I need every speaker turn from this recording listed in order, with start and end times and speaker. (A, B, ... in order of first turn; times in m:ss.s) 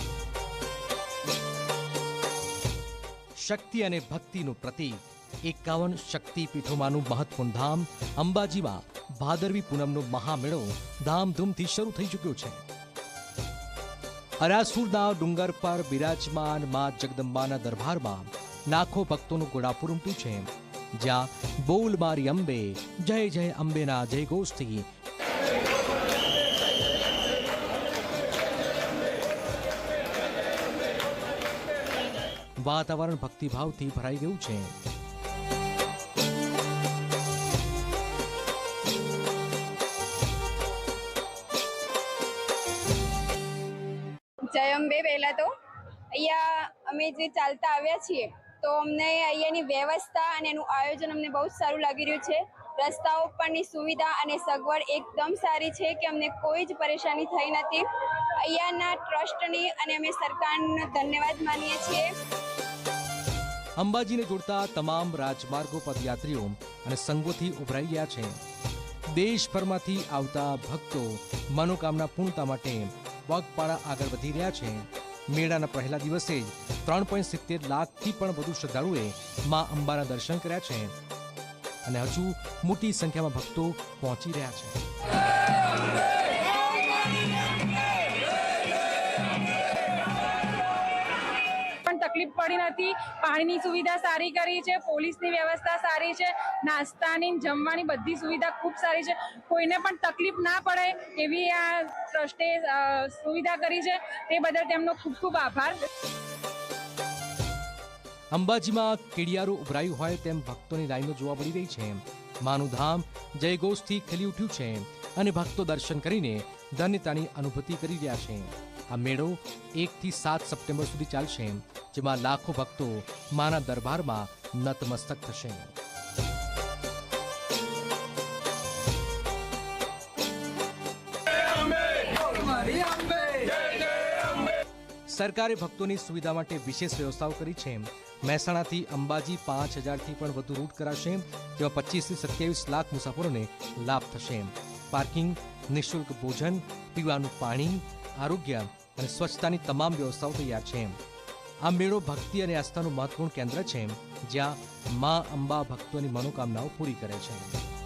0:03.4-0:12.6 A
0:14.4-0:24.9 A
0:32.6-0:34.8 A
0:44.5-0:45.5 B
0:46.1-1:02.1 B
1:03.8-1:08.4 A
1:09.1-1:21.0 A
1:21.8-1:24.8 A
1:31.8-1:45.8 C
1:48.3-2:05.7 A
2:12.3-2:13.6 C
2:15.1-2:31.0 A
2:31.6-2:37.6 A